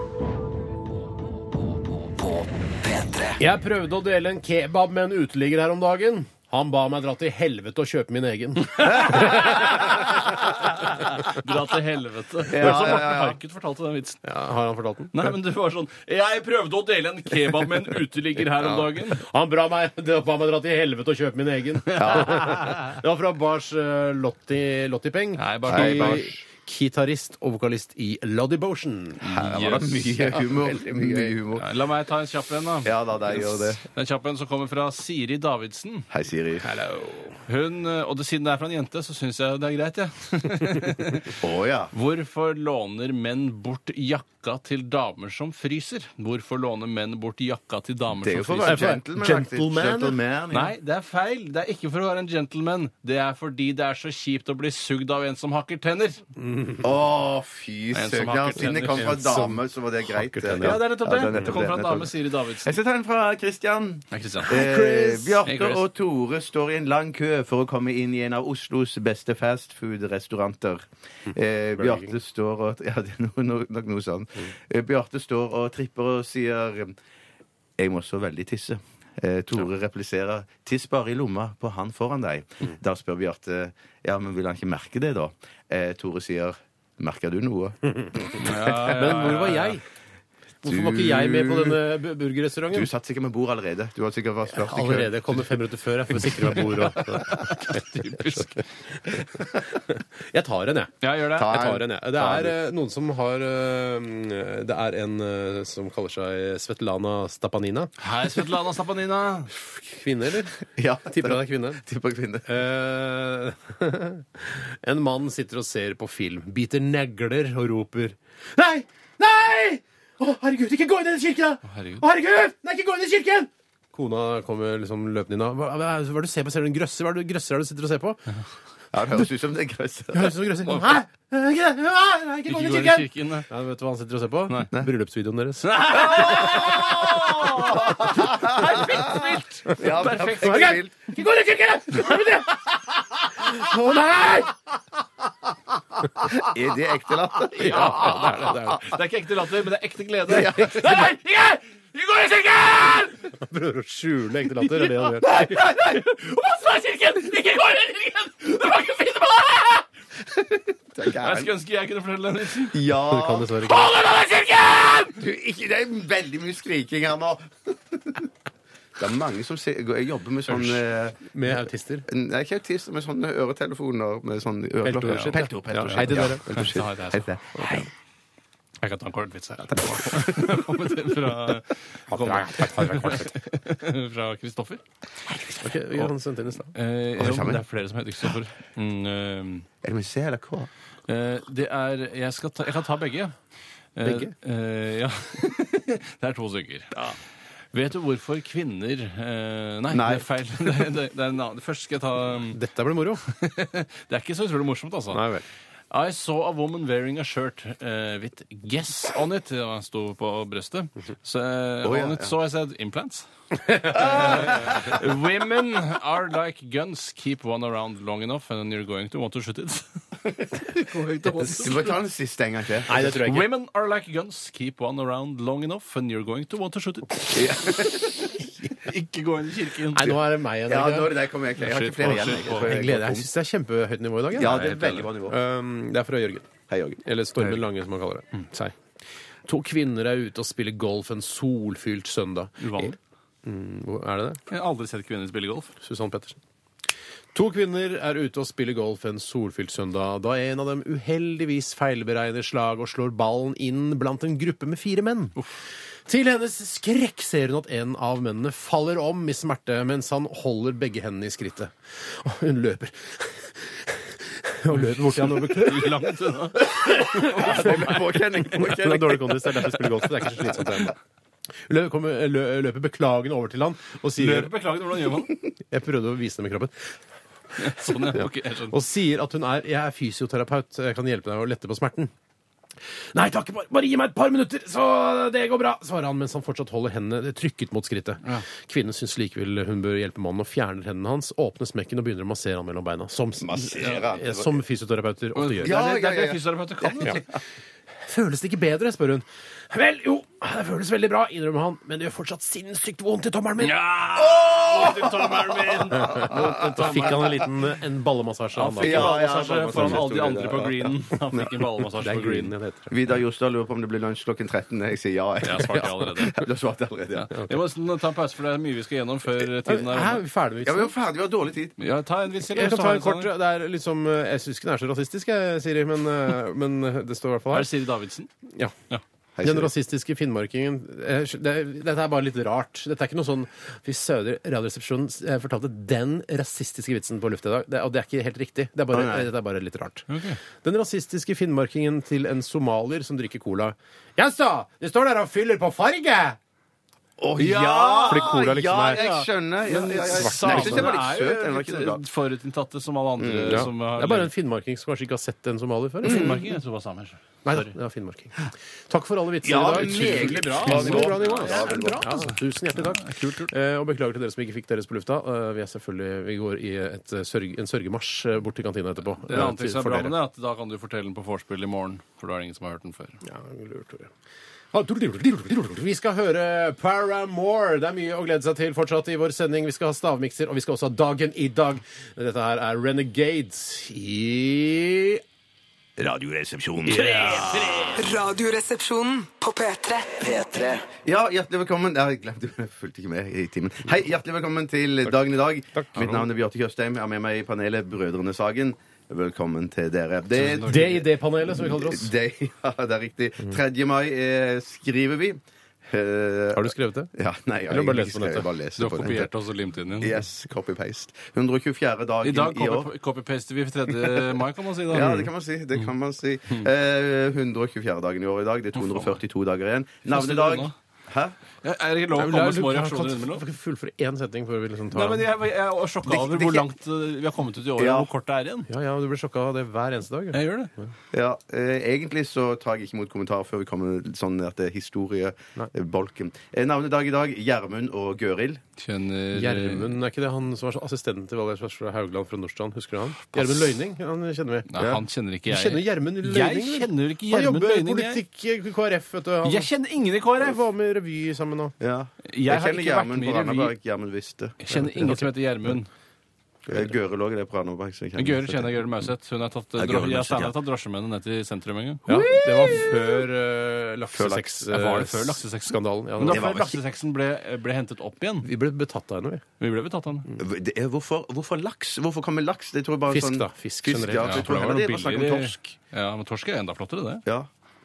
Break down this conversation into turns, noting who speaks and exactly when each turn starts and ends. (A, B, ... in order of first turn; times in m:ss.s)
0:02.1-0:03.4 A
0:03.4-0:11.4 B
0:08.8-0:14.2 C
0:12.5-0:13.4 D
0:14.2-0:15.3 B
0:15.1-0:19.2 C
0:19.1-0:29.5 B
0:22.0-0:22.7 D
0:22.0-0:22.4 C
0:25.4-0:26.3 C
0:25.7-0:26.2 D
0:29.2-0:31.7 D
0:29.3-0:30.1 C
0:30.2-0:31.3 B
0:31.6-0:36.1 C
0:32.8-0:33.8 D
0:36.1-0:36.7 D
0:36.6-0:37.4 B
0:37.5-0:48.9 C
0:41.4-0:41.9 D
0:48.1-0:50.7 D
0:48.6-0:50.2 B
0:50.5-0:56.2 C
0:56.4-0:56.9 B
0:56.8-1:17.0 D
0:57.9-0:59.2 C
0:59.0-1:00.8 B
1:00.6-1:02.7 C
1:04.1-1:04.7 C
1:04.4-1:05.4 B
1:05.4-1:05.8 C
1:11.8-1:12.1 B
1:17.8-1:29.0 D
1:28.4-1:29.8 C
1:28.8-1:29.8 B
1:30.6-1:32.9 B
1:30.6-1:31.8 D
1:32.7-1:35.1 D
1:34.5-1:38.6 B
1:36.2-1:39.2 C
1:39.1-1:47.9 B
1:41.0-1:41.5 C
1:41.4-1:42.5 D
1:48.0-1:49.5 C
1:49.9-1:51.8 B
1:50.7-1:52.5 D
1:52.4-2:08.2 B
2:01.7-2:02.0 C
2:08.9-2:10.4 D
2:10.1-2:16.0 B
2:12.5-2:13.5 C
2:15.6-2:20.8 C
2:15.9-2:20.9 D
2:20.3-2:24.6 B
2:26.0-2:26.5 B
2:26.3-2:28.7 D
2:27.5-2:29.0 B
2:27.6-2:33.3 C
2:30.3-2:30.8 D
2:30.6-2:31.0 B
2:33.3-2:35.4 B
2:34.6-2:42.8 C
2:40.9-2:41.5 D
2:42.7-2:43.5 D
2:43.0-2:43.9 B
2:43.6-2:45.2 C
2:45.1-2:48.3 D
2:49.0-2:57.9 D
2:51.3-2:52.1 B
2:54.8-2:56.6 B
2:55.0-2:55.4 C
2:55.9-2:57.3 C
2:57.6-2:57.8 B
2:58.8-3:04.8 C
2:59.9-3:00.4 B
3:02.1-3:03.3 B
3:05.6-3:06.7 B
3:06.7-3:09.7 C
3:07.2-3:07.6 D
3:09.8-3:10.7 D
3:11.1-3:13.3 C
3:14.0-3:17.2 C
3:14.0-3:14.3 B
3:17.7-3:22.6 C
3:19.9-3:20.2 D
3:22.5-3:23.2 B
3:23.2-3:25.2 C
3:25.1-3:25.4 B
3:25.9-3:41.9 C
3:31.8-3:32.3 D
3:33.7-3:34.1 B
3:33.9-3:35.0 D
3:41.4-3:41.7 B
3:41.6-3:43.1 D
3:42.9-3:43.5 B
3:43.0-3:50.1 C
3:47.3-3:48.3 D
3:49.9-3:51.1 B
3:50.6-3:53.3 D
3:51.6-3:52.8 C
3:52.3-3:56.5 B
3:54.3-3:55.4 D
3:54.4-3:55.1 C
3:56.7-3:57.0 D
3:57.0-3:58.7 B
3:59.4-4:04.4 B
4:02.6-4:03.0 C
4:04.5-4:05.7 C
4:05.8-4:06.4 B
4:07.3-4:15.4 B
4:16.1-4:26.1 B
4:24.7-4:28.5 C
4:26.8-4:31.0 B
4:27.2-4:29.6 D
4:31.7-4:34.5 B
4:34.2-4:35.3 C
4:35.7-4:36.9 B
4:37.6-4:38.7 C
4:37.6-4:42.1 B
4:43.1-4:55.8 B
4:53.4-4:54.6 D
4:55.3-4:57.2 C
4:55.6-4:57.2 D
4:58.0-5:03.8 B
5:03.6-5:07.3 C
5:04.1-5:07.3 D
5:06.0-5:10.0 B
5:08.5-5:12.5 C
5:08.8-5:11.5 D
5:12.0-5:12.9 B
5:12.9-5:17.3 D
5:15.4-5:16.4 C
5:17.2-5:20.2 C
5:19.6-5:20.9 B
5:20.6-5:21.8 D
5:21.8-5:23.3 C
5:22.5-5:27.7 B
5:27.5-5:28.3 C
5:28.5-5:28.7 B
5:29.4-5:29.7 D
5:29.4-5:46.4 B
5:38.9-5:39.3 D
5:40.1-5:40.4 C
5:47.2-5:52.0 D
5:47.4-5:48.3 C
5:48.0-5:49.0 B
5:48.9-5:54.3 C
5:50.0-5:50.9 B
5:53.2-5:53.7 D
5:53.5-5:56.4 B
5:56.0-5:57.7 C
5:56.0-5:56.4 D
5:57.4-6:10.2 B
5:59.4-6:02.0 D
5:59.7-6:03.5 C
6:09.2-6:13.2 C
6:13.2-6:14.1 B
6:14.7-6:25.2 B
6:26.0-6:28.0 D
6:26.8-6:28.0 B
6:27.0-6:27.9 C
6:28.0-6:30.2 E
6:30.1-6:30.8 A
6:31.0-6:49.3 D
6:35.7-6:36.2 B
6:40.3-6:41.0 C
6:40.6-6:42.1 B
6:46.5-6:47.1 B
6:47.7-6:48.5 B
6:48.8-6:50.2 C
6:50.0-6:52.9 D
6:52.2-6:55.2 C
6:54.9-7:01.4 D
6:58.8-6:59.2 C
7:00.1-7:00.7 C
7:01.6-7:03.4 C
7:02.1-7:05.3 B
7:04.9-7:08.7 C
7:06.1-7:06.7 D
7:07.8-7:08.1 D
7:08.7-7:10.9 B
7:10.3-7:10.7 C
7:11.1-7:18.6 D
7:18.8-7:20.0 C
7:19.3-7:24.7 B
7:23.3-7:23.7 C
7:24.7-7:28.2 C
7:24.8-7:25.0 D
7:25.5-7:29.7 B
7:29.4-7:30.6 C
7:30.4-7:31.7 B
7:31.8-7:34.6 D
7:32.3-7:33.7 C
7:34.6-7:35.9 C
7:34.7-7:35.3 B
7:36.7-7:38.7 D
7:38.2-7:42.2 C
7:39.8-7:40.6 D
7:42.1-7:46.6 B
7:42.2-7:42.9 D
7:44.1-7:44.5 D
7:44.7-7:48.5 C
7:46.2-7:46.8 D
7:48.4-7:49.4 B
7:49.6-7:50.3 C
7:50.4-7:55.6 D
7:53.1-7:54.8 B
7:54.2-7:57.2 C